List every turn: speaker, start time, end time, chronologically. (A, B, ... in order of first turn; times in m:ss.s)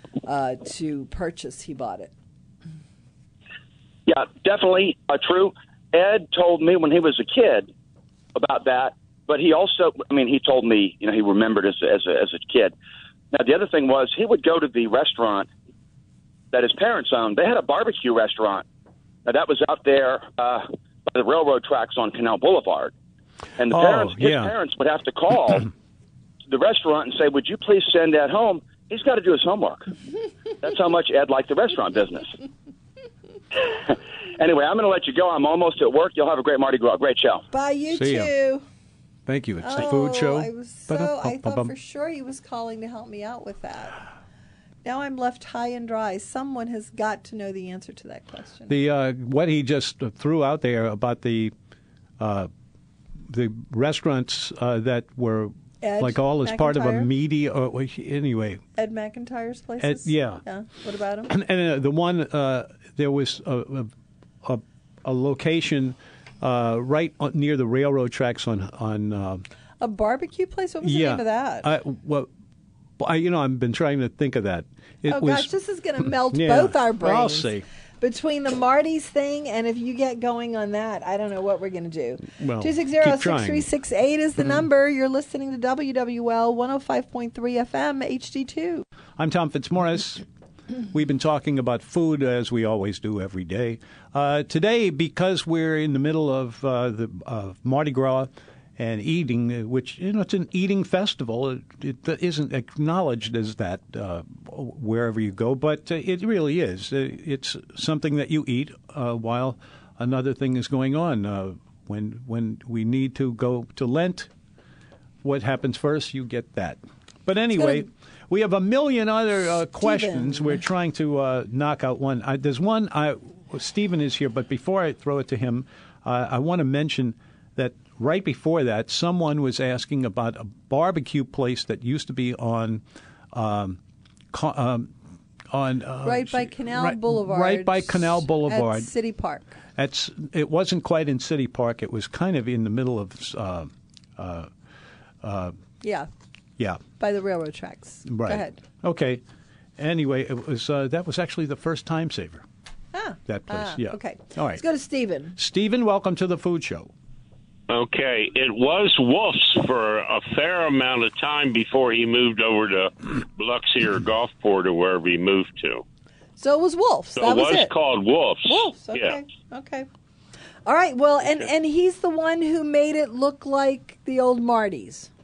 0:00.3-0:02.1 A
0:04.1-0:07.7 B
0:08.4-0:12.7 B
0:13.3-0:15.5 B
0:16.5-0:18.6 B
0:19.2-0:22.9 B
0:23.6-0:25.7 B
0:23.7-0:24.5 C
0:26.5-0:29.9 B
0:30.6-0:32.3 B
0:33.6-0:37.5 B
0:37.5-0:38.6 A
0:37.9-0:38.3 C
0:39.3-0:41.7 C
0:39.6-0:44.0 A
0:44.8-0:48.8 A
0:48.7-0:51.5 C
0:52.2-0:52.5 C
0:53.3-0:58.6 C
0:55.8-0:57.1 A
0:58.8-1:01.3 A
0:59.8-1:00.4 C
1:01.3-1:03.9 C
1:04.4-1:09.4 C
1:09.8-1:11.7 A
1:10.8-1:12.3 C
1:13.0-1:17.6 C
1:15.1-1:28.8 A
1:22.2-1:23.7 C
1:29.2-1:30.2 C
1:30.9-1:54.3 C
1:55.2-2:13.8 C
1:59.8-2:00.6 A
2:14.3-2:14.9 C
2:15.5-2:18.9 C
2:16.0-2:19.6 A
2:19.8-2:24.5 C
2:25.2-2:25.6 C
2:25.8-2:26.1 A
2:27.0-2:28.6 A
2:28.1-2:29.2 C
2:29.8-2:32.4 C
2:32.9-2:35.4 A
2:33.3-2:34.6 C
2:35.4-2:36.9 C
2:37.7-2:45.8 D
2:46.4-2:47.7 A
2:47.2-2:49.2 D
2:48.5-2:49.9 A
2:50.7-2:55.1 A